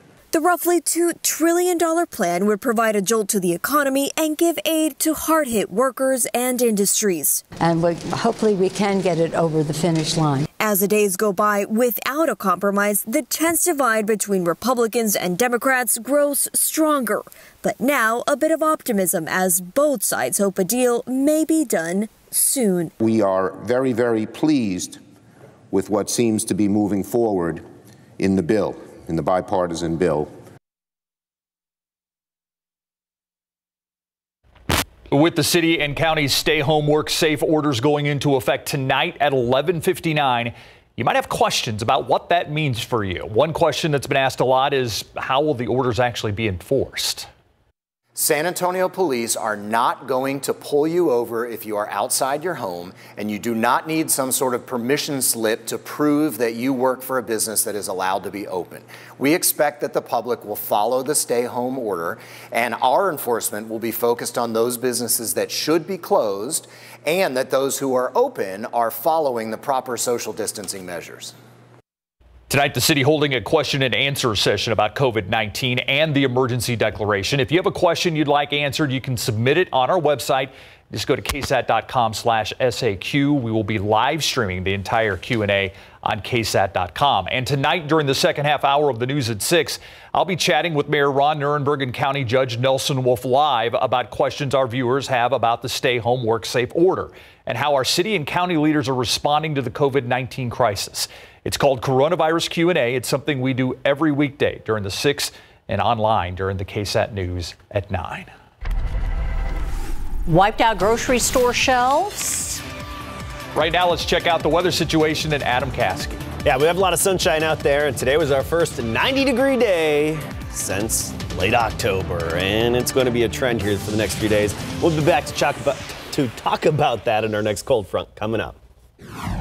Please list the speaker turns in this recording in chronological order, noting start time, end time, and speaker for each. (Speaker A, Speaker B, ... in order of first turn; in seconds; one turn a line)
Speaker A: 0.3-7.4
Speaker B: 7.6-10.4
Speaker A: 10.6-22.9
Speaker C: 23.0-25.0
Speaker C: 25.7-27.6
Speaker C: 28.2-30.3
Speaker D: 35.1-47.3
Speaker E: 48.1-71.3
Speaker D: 72.5-108.3
Speaker F: 110.3-112.6
Speaker D: 113.5-116.2
Speaker G: 116.4-128.6